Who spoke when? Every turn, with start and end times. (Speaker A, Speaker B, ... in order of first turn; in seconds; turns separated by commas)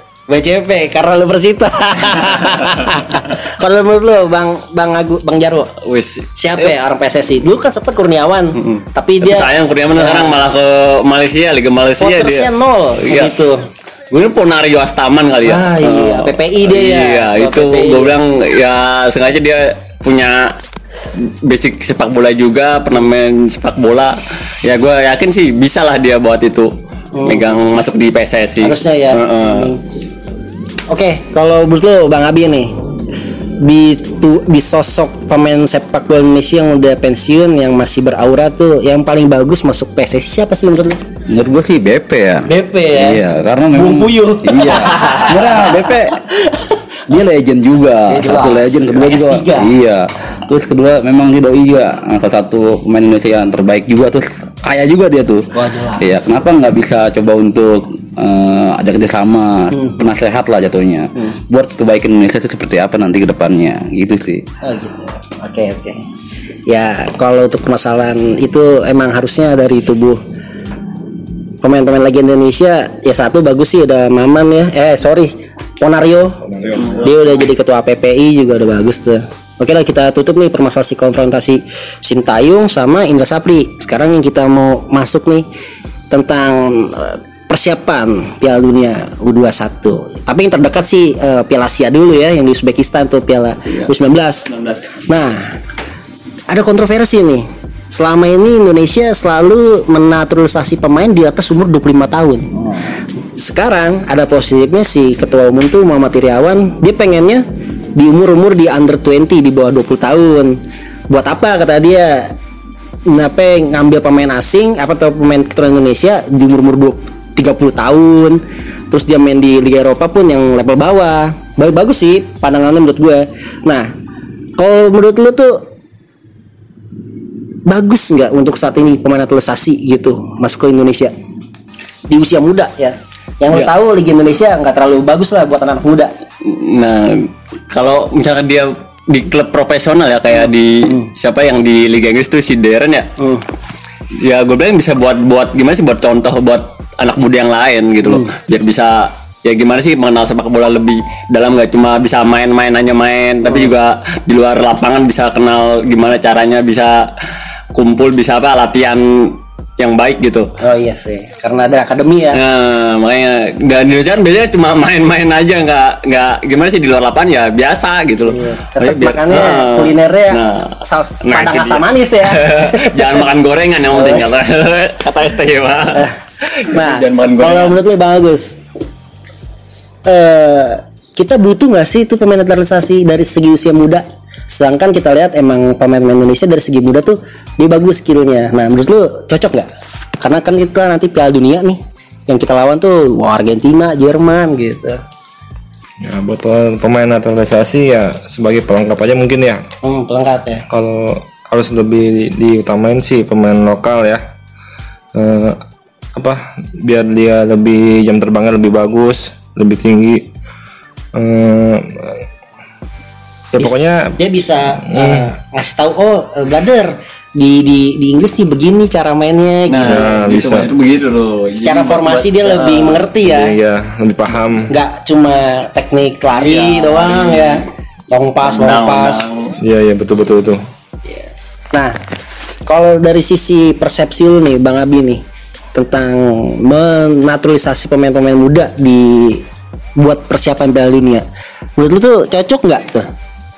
Speaker A: 0.3-5.7, Speaker B: 5.8-6.8, Speaker A: 6.4-10.4, Speaker B: 9.2-12.5, Speaker A: 12.0-13.6, Speaker B: 13.0-13.3, Speaker B: 14.1-20.5, Speaker A: 15.4-18.2, Speaker B: 21.2-26.7, Speaker A: 27.1-27.5, Speaker B: 27.2-29.7, Speaker A: 28.6-29.8, Speaker A: 30.9-32.7, Speaker A: 33.6-41.0, Speaker C: 41.3-46.2, Speaker A: 42.5-43.2, Speaker A: 43.7-45.8, Speaker C: 47.1-64.5, Speaker A: 48.1-49.7, Speaker A: 55.5-56.1, Speaker A: 64.6-66.0, Speaker A: 66.7-70.2, Speaker A: 71.6-85.5, Speaker D: 76.5-77.0, Speaker A: 86.1-94.5, Speaker B: 94.5-94.9, Speaker A: 95.1-95.6, Speaker A: 96.5-102.5, Speaker A: 103.4-107.4, Speaker A: 108.0-110.6, Speaker A: 111.1-112.3, Speaker A: 113.1-118.4, Speaker A: 118.9-123.9, Speaker A: 124.6-125.6, Speaker A: 127.7-131.1, Speaker A: 132.1-136.1, Speaker B: 136.4-143.1, Speaker A: 143.2-143.4, Speaker B: 144.2-157.0, Speaker A: 148.1-148.3, Speaker A: 153.5-153.7, Speaker B: 157.7-160.5, Speaker A: 160.6-162.4, Speaker B: 162.3-170.7, Speaker A: 168.3-173.2, Speaker B: 171.2-176.1, Speaker A: 173.9-174.3, Speaker A: 175.9-178.6, Speaker B: 176.7-177.8, Speaker A: 180.1-189.7, Speaker A: 190.2-195.0, Speaker D: 196.0-199.6, Speaker A: 199.8-200.7, Speaker D: 200.7-204.2, Speaker D: 205.2-205.6, Speaker D: 206.2-210.3, Speaker D: 211.2-212.2, Speaker D: 213.5-214.2, Speaker A: 213.6-220.2, Speaker D: 214.8-215.3, Speaker B: 219.7-223.1, Speaker D: 219.8-220.7, Speaker A: 221.6-223.6, Speaker D: 223.3-224.7, Speaker A: 224.7-229.3, Speaker B: 226.3-227.6, Speaker B: 228.4-229.5, Speaker D: 229.6-230.6, Speaker A: 232.7-235.2, Speaker A: 235.8-239.4, Speaker A: 240.0-241.2, Speaker A: 241.8-243.1